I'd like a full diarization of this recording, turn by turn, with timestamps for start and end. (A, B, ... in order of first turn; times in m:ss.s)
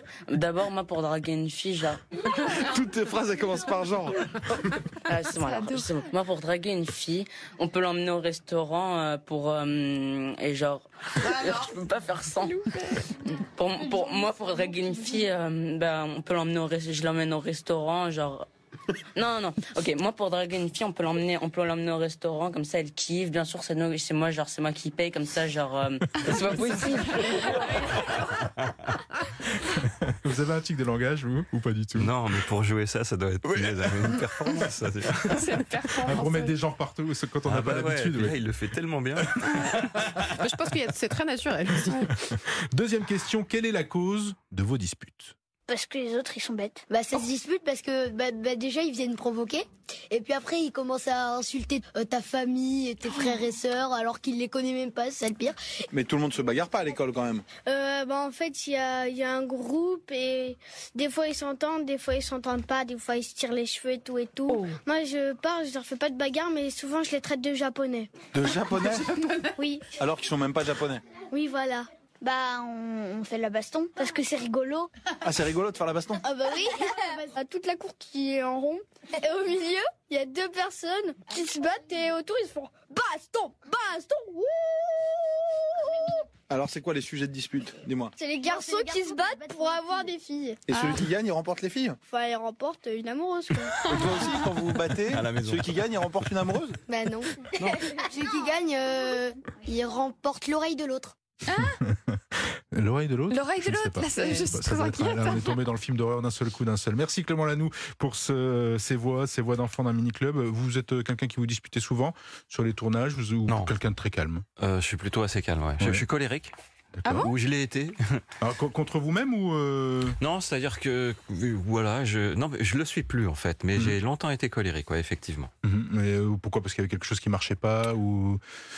0:00.3-0:02.5 A
0:02.5-0:04.2 B
0:05.0-0:12.6 A
0:05.3-0:05.9 C
0:12.4-0:13.2 C
0:13.3-0:18.4 A
0:19.1-0:28.3 A
0:28.6-0:28.9 D
0:29.6-0:32.3 E
0:32.0-0:35.5 D
0:35.3-0:36.6 C
0:36.0-0:38.4 E
0:37.4-0:39.6 D
0:39.4-0:39.8 C
0:39.6-0:40.1 E
0:40.4-0:42.1 C
0:41.9-0:45.3 E
0:45.7-0:46.9 F
0:46.9-0:55.6 G
0:55.9-0:57.5 B
0:57.6-1:08.3 H
1:08.3-1:09.1 B
1:09.6-1:09.9 H
1:09.9-1:11.0 B
1:11.3-1:11.9 H
1:12.2-1:14.9 F
1:15.2-1:16.2 B
1:16.4-1:17.2 G
1:17.3-1:26.2 H
1:26.5-1:28.1 B
1:28.2-1:30.6 H
1:28.4-1:30.0 G
1:30.7-1:32.0 B
1:30.7-1:31.1 C
1:32.1-1:33.8 H
1:33.9-1:36.8 B
1:35.1-1:36.3 D
1:36.9-1:41.2 G
1:41.5-1:41.8 C
1:41.6-1:42.2 E
1:42.7-1:54.4 E
1:43.3-1:45.6 C
1:53.5-1:53.7 D
1:54.6-1:56.5 D
1:55.8-1:56.1 E
1:57.0-1:57.3 E
1:57.0-1:57.3 C
1:57.1-1:58.2 D
1:58.4-2:00.2 E
2:00.2-2:05.5 D
2:05.6-2:08.4 E